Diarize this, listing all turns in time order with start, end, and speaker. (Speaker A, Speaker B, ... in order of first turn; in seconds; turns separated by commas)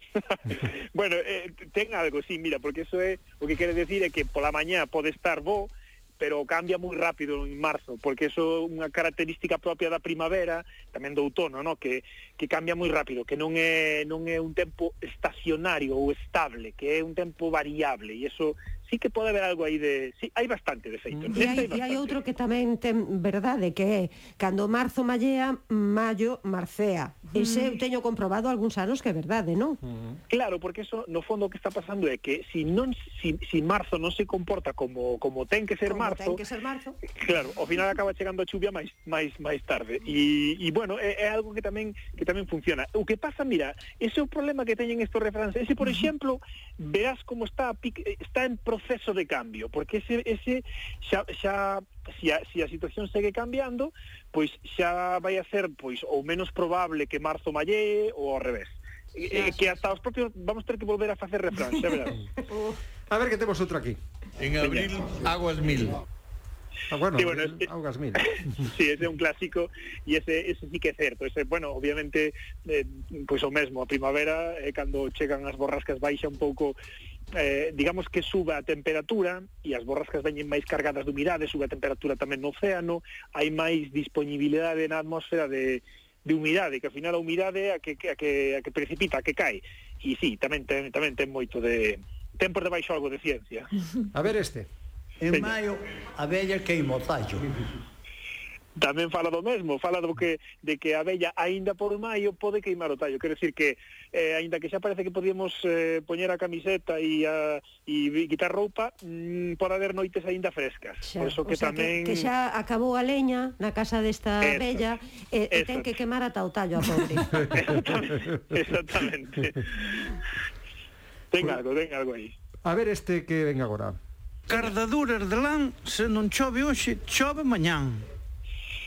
Speaker A: 0.2-22.1, Speaker B: 21.1-21.5, Speaker C: 21.3-29.8, Speaker B: 29.8-30.2, Speaker A: 30.3-36.4, Speaker C: 35.9-37.0, Speaker A: 37.2-62.2, Speaker C: 62.5-62.8, Speaker B: 63.1-64.0, Speaker A: 64.5-65.0, Speaker B: 66.9-68.4, Speaker A: 67.2-67.6, Speaker A: 68.2-76.8, Speaker A: 77.3-93.7, Speaker B: 94.1-94.7, Speaker A: 95.2-95.6, Speaker A: 98.8-112.3, Speaker C: 111.0-117.5, Speaker A: 114.4-114.9, Speaker A: 115.5-116.0, Speaker A: 117.5-120.2, Speaker A: 121.3-122.3, Speaker B: 122.6-124.0, Speaker D: 124.5-128.1